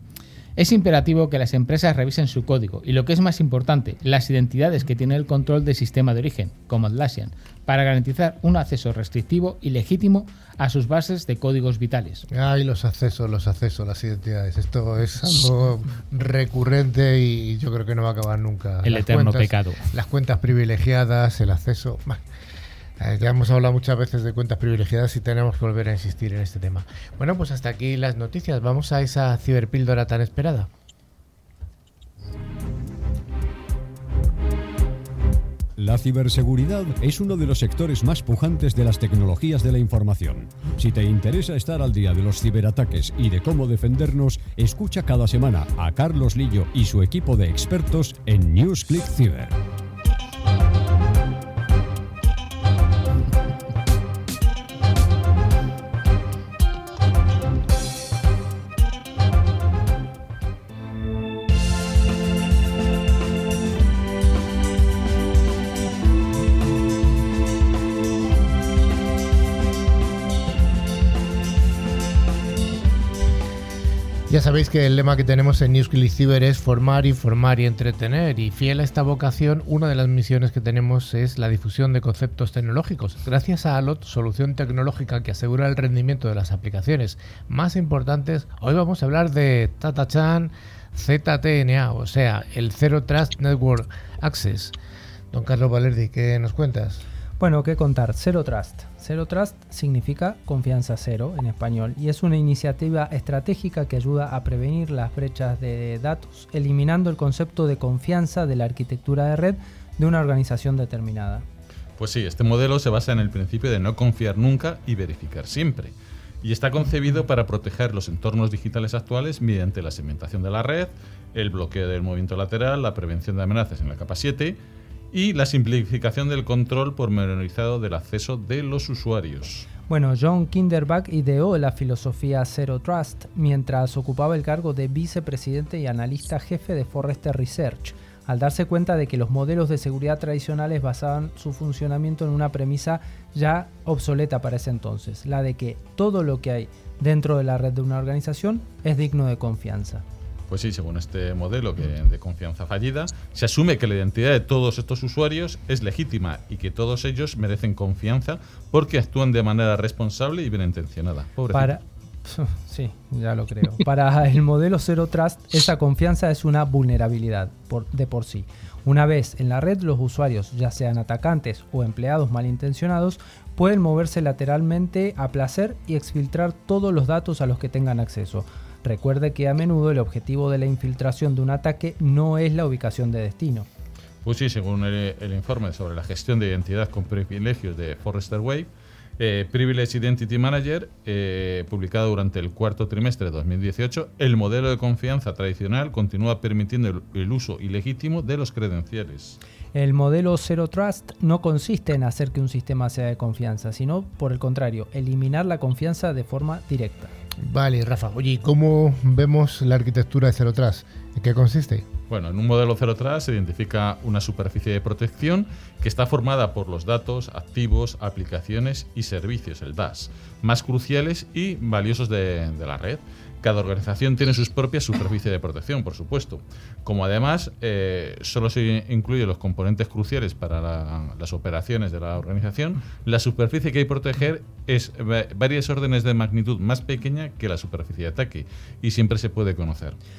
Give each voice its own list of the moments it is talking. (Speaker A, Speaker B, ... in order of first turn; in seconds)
Speaker A: 0.6-12.2, 18.8-19.8
Speaker B: 12.3-22.2, 23.0-30.7, 74.3-94.7, 95.3-97.0, 207.4-211.9
Speaker C: 35.8-49.6
Speaker D: 97.4-111.5, 129.9-150.0, 161.5-183.7, 199.7-207.1
Speaker E: 112.0-124.6, 125.1-129.7, 150.5-161.7, 184.2-199.4, 212.1-240.0